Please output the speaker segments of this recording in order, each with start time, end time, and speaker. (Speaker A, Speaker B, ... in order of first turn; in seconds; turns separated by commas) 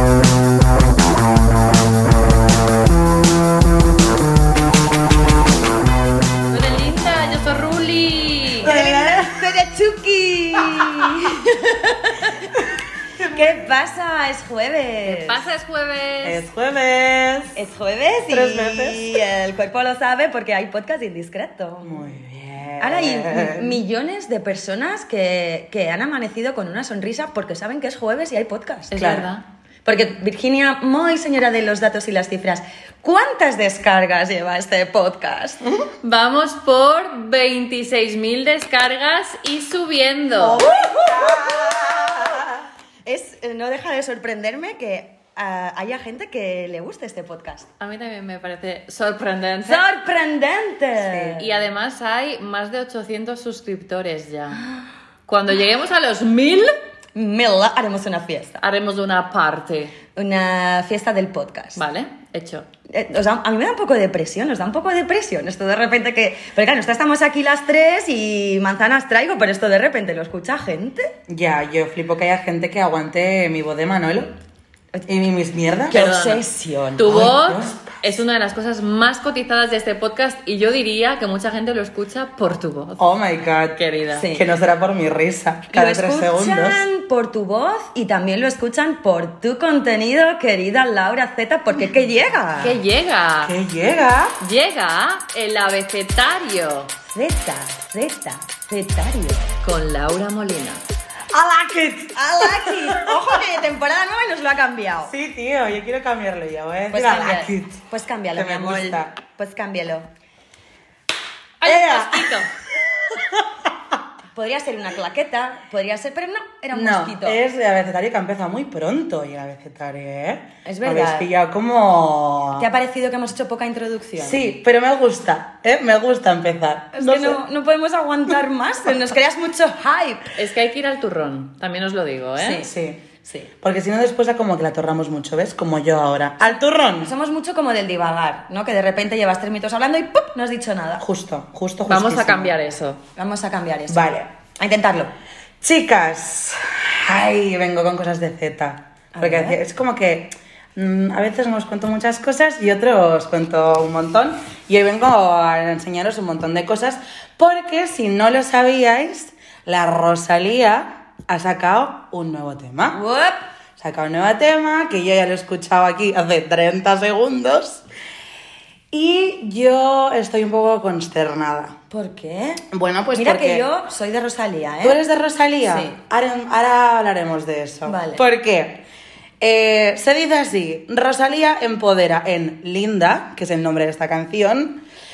Speaker A: 6.5-8.7, Speaker B: 8.6-9.5, Speaker C: 8.6-12.5, Speaker B: 10.6-10.9, Speaker B: 13.2-13.6, Speaker C: 13.2-15.4, Speaker A: 15.1-16.4, Speaker B: 16.2-17.6, Speaker C: 17.6-22.1, Speaker B: 18.3-19.0, Speaker B: 21.8-23.8, Speaker C: 22.8-28.9, Speaker A: 28.9-29.4, Speaker B: 28.9-29.3, Speaker C: 29.9-35.6, Speaker A: 36.0-40.6, Speaker B: 40.4-42.6, Speaker C: 40.5-42.5, Speaker C: 43.0-47.7, Speaker A: 47.8-49.9, Speaker C: 49.6-51.5, Speaker B: 51.0-51.3, Speaker A: 51.4-54.7, Speaker A: 55.3-56.7, Speaker C: 57.1-58.6, Speaker A: 58.6-60.0, Speaker C: 60.2-61.8, Speaker A: 61.8-62.7, Speaker C: 62.9-71.1, Speaker B: 71.3-74.3, Speaker B: 75.1-76.0, Speaker C: 75.9-77.3, Speaker A: 75.9-76.4, Speaker B: 77.0-78.0, Speaker A: 77.0-83.0, Speaker B: 83.0-86.9, Speaker A: 83.8-84.3, Speaker C: 84.2-84.4, Speaker C: 85.7-92.8, Speaker A: 92.6-93.5, Speaker B: 93.4-94.4, Speaker A: 94.4-96.9, Speaker C: 97.0-99.5, Speaker A: 99.6-100.8, Speaker B: 101.3-103.4, Speaker C: 102.1-105.1, Speaker B: 105.1-107.8, Speaker C: 106.9-110.1, Speaker B: 108.3-109.2, Speaker A: 111.6-112.5, Speaker B: 111.6-112.3, Speaker B: 113.1-113.7, Speaker C: 114.3-117.4, Speaker B: 116.7-122.7, Speaker C: 120.7-121.3, Speaker C: 122.6-124.5, Speaker B: 124.2-127.4, Speaker C: 126.9-130.3, Speaker A: 130.3-132.6, Speaker C: 132.4-132.7, Speaker B: 132.6-137.1, Speaker C: 137.0-141.1, Speaker B: 141.0-142.5, Speaker A: 141.9-143.0, Speaker C: 143.2-145.1, Speaker B: 143.9-144.3, Speaker B: 145.6-163.0, Speaker C: 149.1-149.6, Speaker C: 162.9-163.4, Speaker B: 163.8-167.8, Speaker B: 168.9-171.8, Speaker C: 171.9-172.6, Speaker B: 172.7-173.7, Speaker C: 173.2-175.0, Speaker B: 174.8-178.8, Speaker C: 175.7-176.0, Speaker C: 177.9-178.2, Speaker B: 179.4-184.8